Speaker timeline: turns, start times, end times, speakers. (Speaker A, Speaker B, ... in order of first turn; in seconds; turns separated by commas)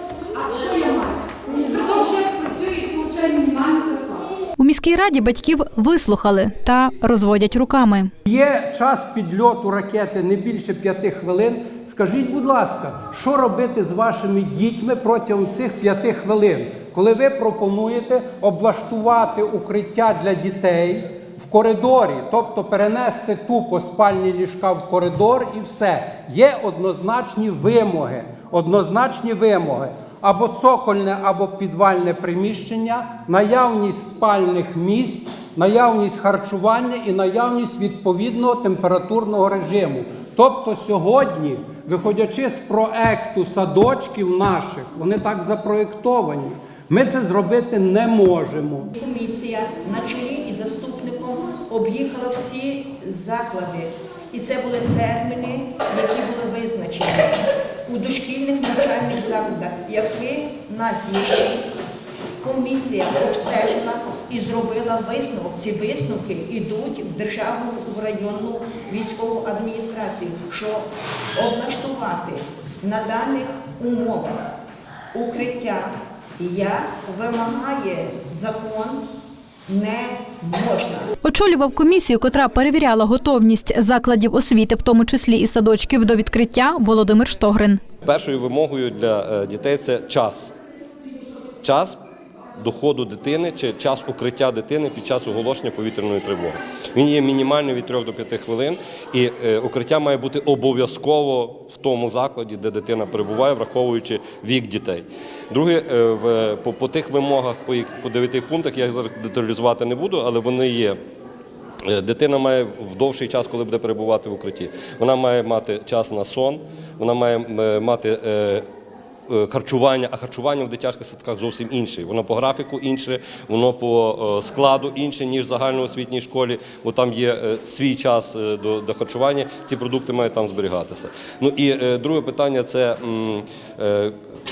Speaker A: 0.3-4.3, Speaker B: 4.6-8.1, Speaker C: 8.2-48.9, Speaker D: 49.0-61.7, Speaker D: 62.4-74.4, Speaker D: 75.1-79.0, Speaker D: 79.7-81.1, Speaker B: 81.2-87.8, Speaker E: 88.0-90.5, Speaker E: 91.6-92.0, Speaker E: 92.6-111.0, Speaker E: 111.8-118.7, Speaker E: 119.3-134.2